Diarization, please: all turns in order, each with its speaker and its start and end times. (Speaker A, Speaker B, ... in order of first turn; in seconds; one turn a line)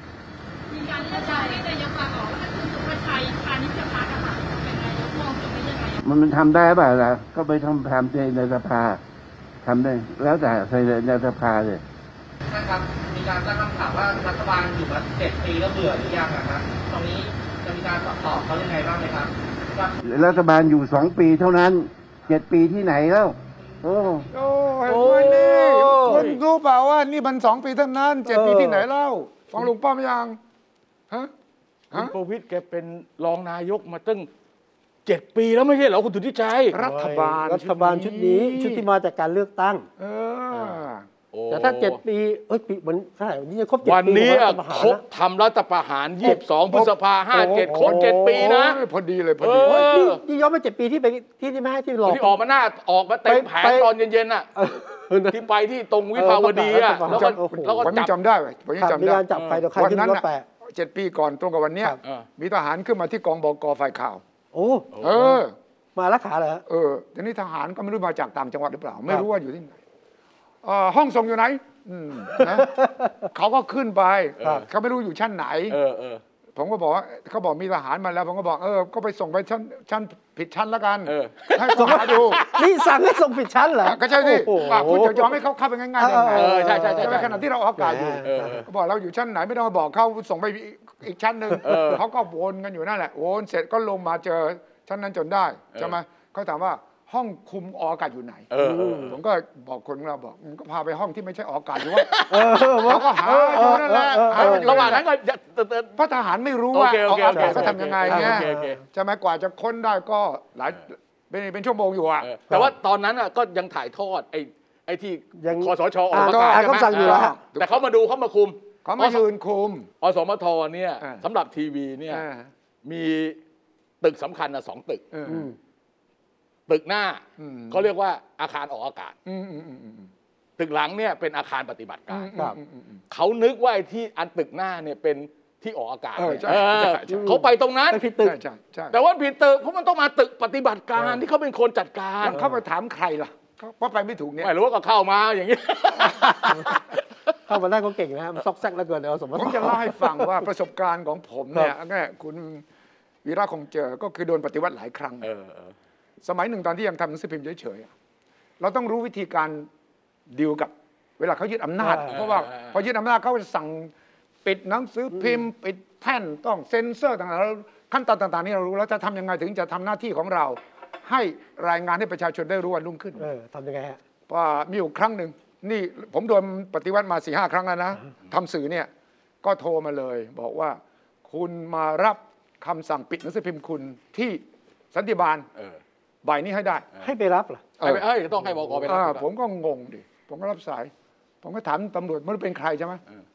Speaker A: 0.7-6.0
Speaker B: 6.0-9.0
Speaker B: 9.6-11.8
Speaker C: 12.5-20.0
Speaker B: 20.0-24.3
Speaker D: 24.3-30.4
Speaker E: 24.9-26.2
Speaker F: 25.9-26.4
Speaker E: 28.3-28.8
Speaker F: 31.9-34.3
Speaker F: 35.0-36.8
Speaker D: 36.7-38.8
Speaker E: 36.8-39.9
Speaker D: 40.0-41.0
Speaker F: 41.3-42.0
Speaker E: 41.5-45.0
Speaker F: 43.8-48.8
Speaker D: 46.2-49.9
Speaker E: 47.4-48.5
Speaker F: 49.4-50.2
Speaker E: 49.6-52.4
Speaker F: 52.0-54.5
Speaker E: 53.3-53.9
Speaker E: 54.5-55.4
Speaker F: 55.3-58.1
Speaker E: 56.1-57.9
Speaker D: 57.1-64.2
Speaker E: 58.8-60.5
Speaker F: 59.3-59.6
Speaker E: 64.5-65.4
Speaker F: 64.9-65.2
Speaker D: 65.0-65.5
Speaker E: 66.0-66.6
Speaker D: 66.7-69.8
Speaker D: 70.6-75.8
Speaker E: 72.4-73.2
Speaker F: 74.4-74.7
Speaker F: 75.7-76.2
Speaker D: 76.5-82.4
Speaker F: 81.0-82.7
Speaker E: 81.7-85.3
Speaker D: 83.8-98.5
Speaker E: 86.0-88.6
Speaker F: 86.3-87.3
Speaker F: 88.2-88.6
Speaker F: 91.6-92.0
Speaker F: 98.5-99.2
Speaker E: 98.6-99.2
Speaker D: 99.0-105.0
Speaker F: 101.8-103.0
Speaker E: 102.3-105.0
Speaker F: 104.3-106.0
Speaker D: 106.0-112.3
Speaker F: 106.7-108.8
Speaker E: 107.3-108.8
Speaker F: 112.2-119.2
Speaker E: 115.4-117.4
Speaker D: 116.2-117.8
Speaker D: 118.8-119.9
Speaker F: 120.0-122.2
Speaker D: 122.1-122.5
Speaker F: 122.8-123.4
Speaker F: 124.0-125.0
Speaker D: 125.1-125.5
Speaker E: 125.3-125.5
Speaker F: 126.7-129.1
Speaker D: 127.4-127.9
Speaker D: 129.2-130.1
Speaker F: 130.6-132.3
Speaker D: 132.1-133.0
Speaker F: 133.1-138.0
Speaker D: 136.2-137.4
Speaker E: 137.1-137.4
Speaker E: 137.9-138.3
Speaker D: 138.2-139.0
Speaker F: 138.9-142.4
Speaker D: 142.2-144.5
Speaker F: 144.4-147.0
Speaker E: 147.5-150.3
Speaker D: 149.3-152.6
Speaker D: 153.2-155.3
Speaker F: 155.2-155.7
Speaker D: 156.2-157.9
Speaker D: 158.6-159.7
Speaker D: 160.3-163.9
Speaker E: 161.8-162.1
Speaker F: 162.1-162.8
Speaker D: 164.4-173.2
Speaker E: 173.2-174.0
Speaker D: 174.3-178.9
Speaker D: 179.4-184.4
Speaker D: 184.9-185.5
Speaker D: 186.2-186.8
Speaker E: 187.0-187.6
Speaker D: 187.8-188.0
Speaker F: 187.8-189.2
Speaker D: 188.8-190.9
Speaker D: 191.4-193.0